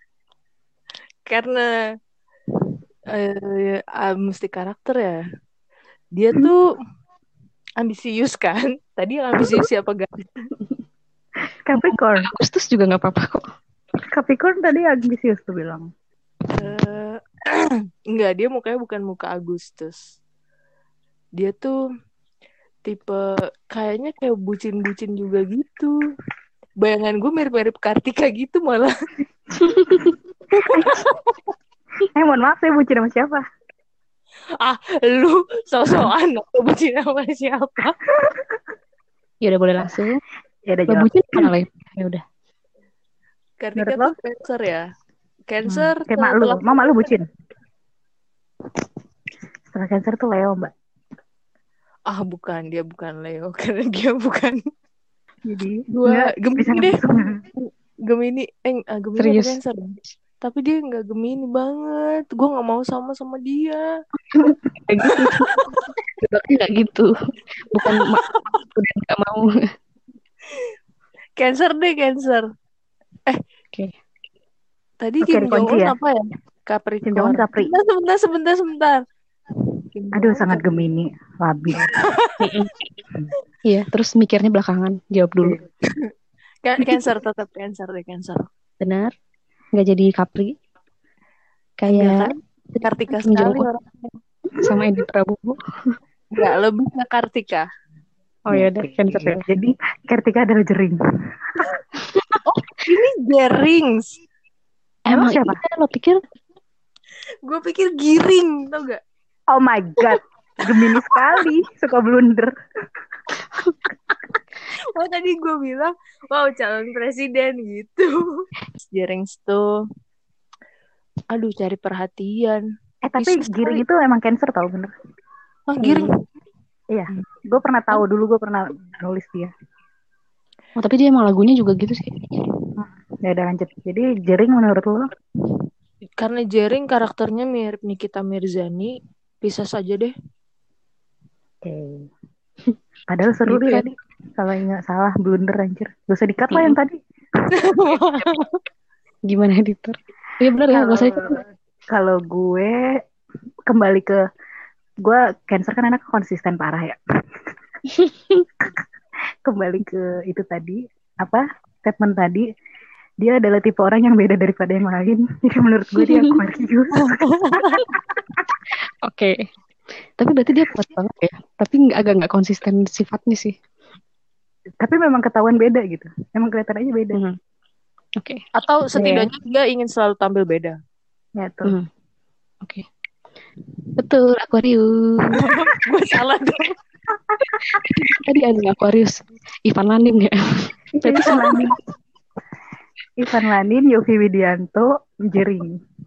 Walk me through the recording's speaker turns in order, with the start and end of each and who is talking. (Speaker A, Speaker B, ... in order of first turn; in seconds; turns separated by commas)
Speaker A: 1.2-1.6, Speaker A: 3.1-5.2, Speaker A: 6.1-6.6, Speaker A: 7.8-10.4, Speaker B: 11.6-12.3, Speaker C: 12.2-13.4, Speaker B: 14.1-15.8, Speaker A: 16.5-20.0, Speaker A: 21.4-21.7, Speaker A: 22.8-23.2, Speaker A: 23.7-25.9, Speaker A: 26.8-28.9, Speaker B: 29.6-30.1, Speaker A: 30.5-31.3, Speaker B: 30.7-31.1, Speaker B: 32.1-33.4, Speaker A: 34.6-38.0, Speaker C: 39.4-40.2, Speaker B: 40.7-41.5, Speaker C: 40.9-42.2, Speaker A: 43.6-44.8, Speaker B: 43.8-44.1, Speaker A: 45.5-47.0, Speaker B: 45.6-47.2, Speaker B: 49.7-50.7, Speaker A: 52.1-54.6, Speaker B: 55.4-57.4, Speaker A: 55.9-63.8, Speaker C: 59.2-59.6, Speaker C: 64.9-65.5, Speaker A: 65.1-65.9, Speaker C: 66.2-67.1, Speaker C: 67.7-68.2, Speaker A: 67.8-68.6, Speaker C: 68.7-69.5, Speaker A: 71.4-72.5, Speaker A: 75.0-79.0, Speaker B: 75.2-76.0, Speaker B: 77.1-77.7, Speaker A: 79.9-80.9, Speaker B: 80.1-82.0, Speaker A: 81.8-82.5, Speaker C: 82.4-82.9, Speaker C: 83.7-85.6, Speaker A: 86.6-88.5, Speaker C: 88.8-89.1, Speaker C: 89.7-90.5, Speaker C: 91.8-92.3, Speaker A: 91.9-94.1, Speaker C: 93.2-93.7, Speaker C: 94.6-95.6, Speaker A: 96.3-97.7, Speaker C: 98.5-99.4, Speaker B: 98.5-101.0, Speaker C: 102.1-102.4, Speaker A: 102.5-104.2, Speaker C: 105.0-106.2, Speaker B: 105.1-105.6, Speaker A: 107.5-109.0, Speaker B: 109.5-112.5, Speaker A: 115.0-118.1, Speaker A: 118.8-119.6, Speaker A: 121.3-122.6, Speaker B: 123.0-124.9, Speaker C: 123.2-123.6, Speaker A: 125.7-126.1, Speaker B: 126.9-129.5, Speaker C: 130.8-132.1, Speaker B: 132.8-135.1, Speaker A: 136.2-140.1, Speaker B: 141.6-142.1, Speaker B: 143.1-147.0, Speaker C: 143.5-143.8, Speaker C: 146.5-146.8, Speaker A: 147.6-148.5, Speaker C: 149.3-151.2, Speaker B: 150.7-152.7, Speaker B: 153.7-154.2, Speaker B: 155.0-157.0, Speaker C: 157.9-158.4, Speaker B: 159.4-162.4, Speaker B: 163.2-167.1, Speaker C: 166.0-166.3, Speaker A: 167.0-167.8, Speaker B: 167.8-168.2, Speaker C: 169.0-169.3, Speaker C: 170.2-173.5, Speaker B: 174.8-177.2, Speaker C: 178.2-178.4, Speaker A: 178.5-180.8, Speaker C: 178.9-179.3, Speaker B: 181.3-181.8, Speaker C: 184.0-185.5, Speaker A: 185.3-186.7, Speaker B: 187.3-187.8, Speaker C: 187.7-190.4, Speaker B: 190.9-191.8, Speaker C: 191.0-191.8, Speaker B: 193.2-195.8